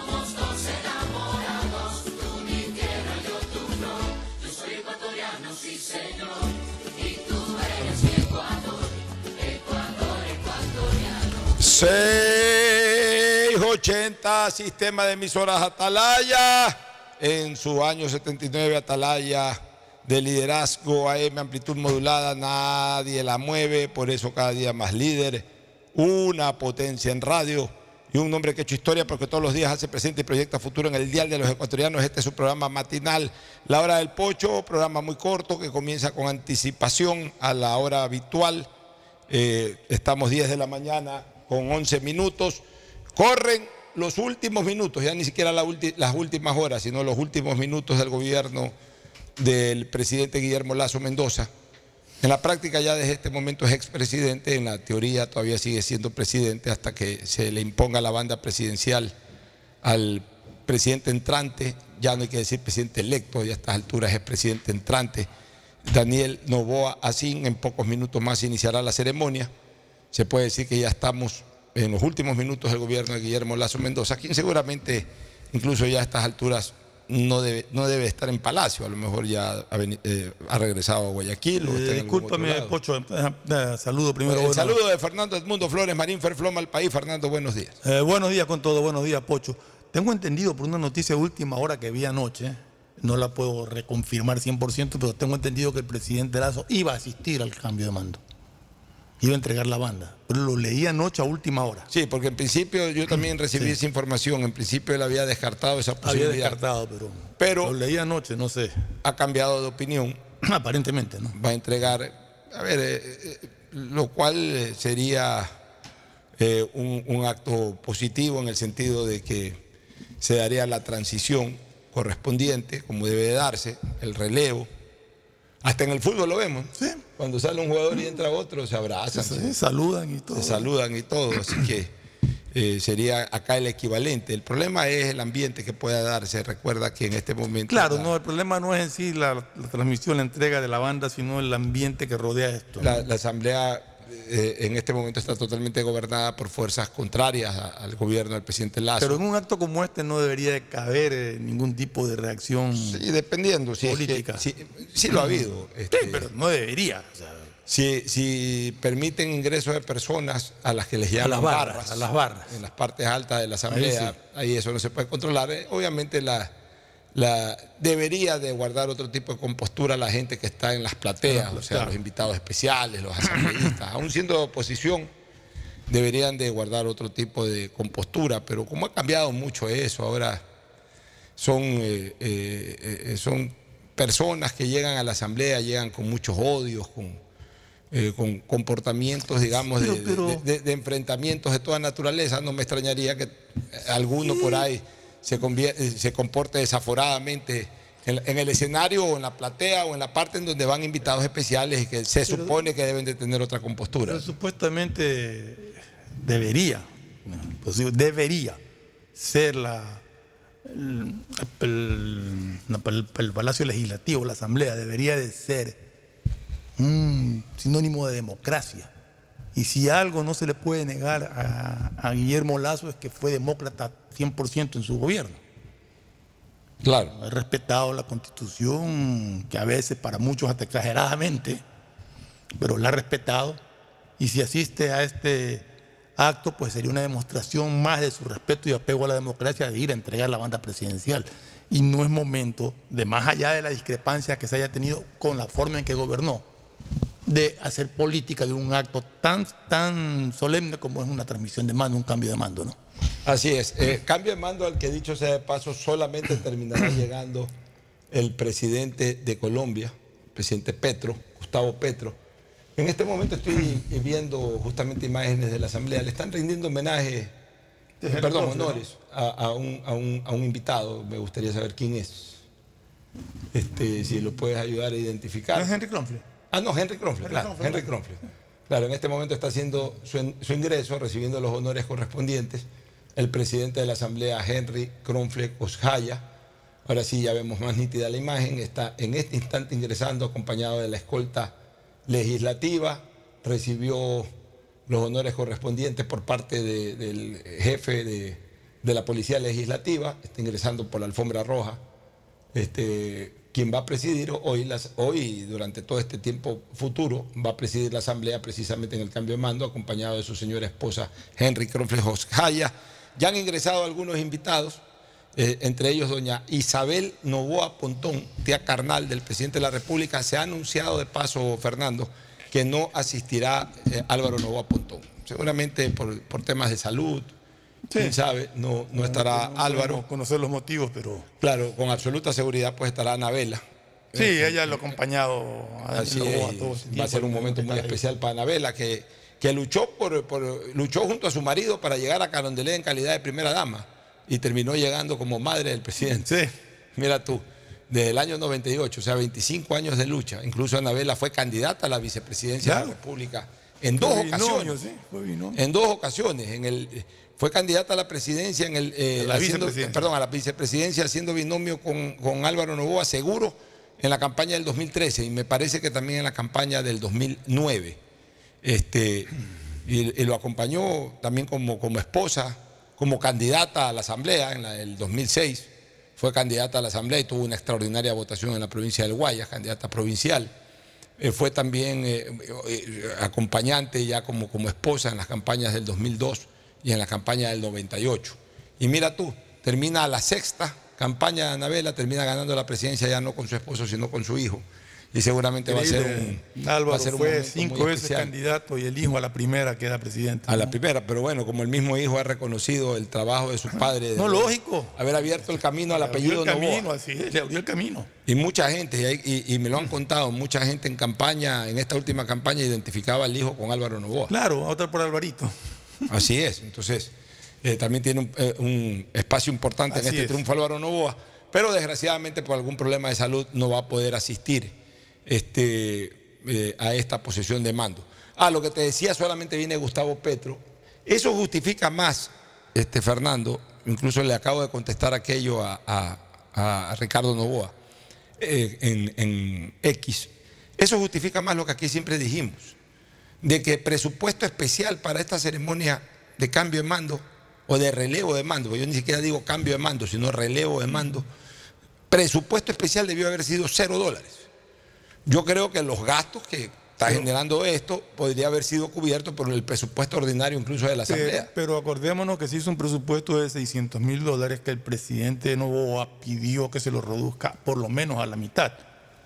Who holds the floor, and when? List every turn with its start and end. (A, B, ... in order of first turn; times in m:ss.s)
0:11.6-0:38.7 A
0:39.3-0:42.6 A
0:43.1-0:48.8 A
0:49.4-0:51.5 A
0:52.2-0:59.1 A
0:59.8-1:05.3 A
1:05.8-1:09.5 A
1:10.1-1:22.8 A
1:21.6-1:24.8 B
1:24.3-1:27.8 A
1:27.8-1:38.2 B
1:39.2-1:41.9 B
1:41.9-1:46.6 A
1:46.0-1:48.7 B
1:47.4-1:47.8 A
1:49.0-1:50.2 A
1:50.4-1:51.4 B
1:51.3-1:55.5 A
1:56.4-1:59.6 A
2:00.2-2:04.7 A
2:05.6-2:09.5 A
2:09.1-2:10.6 B
2:10.3-2:11.9 A
2:12.5-2:18.1 A
2:17.7-2:23.0 B
2:22.8-2:29.2 A
2:29.0-2:33.0 B
2:32.7-2:36.3 A
2:33.8-2:34.4 B
2:35.1-2:37.5 B
2:37.7-2:46.5 A
2:41.2-2:42.6 B
2:43.7-2:44.1 B
2:47.1-2:55.1 A
2:51.3-2:51.9 B
2:55.9-3:00.4 A
3:01.4-3:07.2 A
3:07.9-3:24.3 A
3:09.9-3:10.2 B
3:22.2-3:22.6 B
3:24.1-3:28.6 B
3:29.2-3:30.0 B
3:30.7-3:35.8 B
3:36.8-3:38.9 B
3:39.6-3:45.4 B
3:46.8-3:47.1 A
3:47.1-3:51.6 B
3:52.6-3:53.6 B
3:54.2-3:55.6 B
3:56.2-4:06.5 B
4:07.2-4:12.8 B
4:13.2-4:17.5 A
4:18.1-4:22.2 A
4:22.8-4:27.3 A
4:28.0-4:28.8 B
4:28.1-4:32.4 A
4:33.5-4:35.7 A
4:35.5-4:36.2 B
4:36.5-4:46.3 A
4:37.2-4:37.9 B
4:46.8-4:51.6 A
4:52.1-4:54.3 A
4:54.9-5:01.8 A
5:02.5-5:14.8 A
5:15.4-5:27.3 A
5:27.9-5:28.2 B
5:28.0-5:30.0 A
5:28.9-5:31.3 B
5:31.4-5:35.0 A
5:34.2-5:38.0 B
5:35.9-5:46.3 A
5:46.2-5:46.5 B
5:47.0-5:54.8 A
5:52.6-5:52.9 B
5:54.0-5:55.6 B
5:55.5-6:08.0 A
5:59.2-6:00.1 B
6:08.6-6:09.3 A
6:09.8-6:20.5 A
6:21.2-6:38.3 A
6:35.6-6:40.7 B
6:40.5-6:46.9 A
6:44.2-6:48.1 B
6:48.2-6:54.3 A
6:54.3-6:55.5 B
6:56.1-7:17.8 A
6:59.9-7:00.4 B
7:18.4-7:22.8 A
7:23.4-7:31.3 A
7:32.1-7:34.5 A
7:35.2-7:41.5 A
7:41.1-7:48.8 B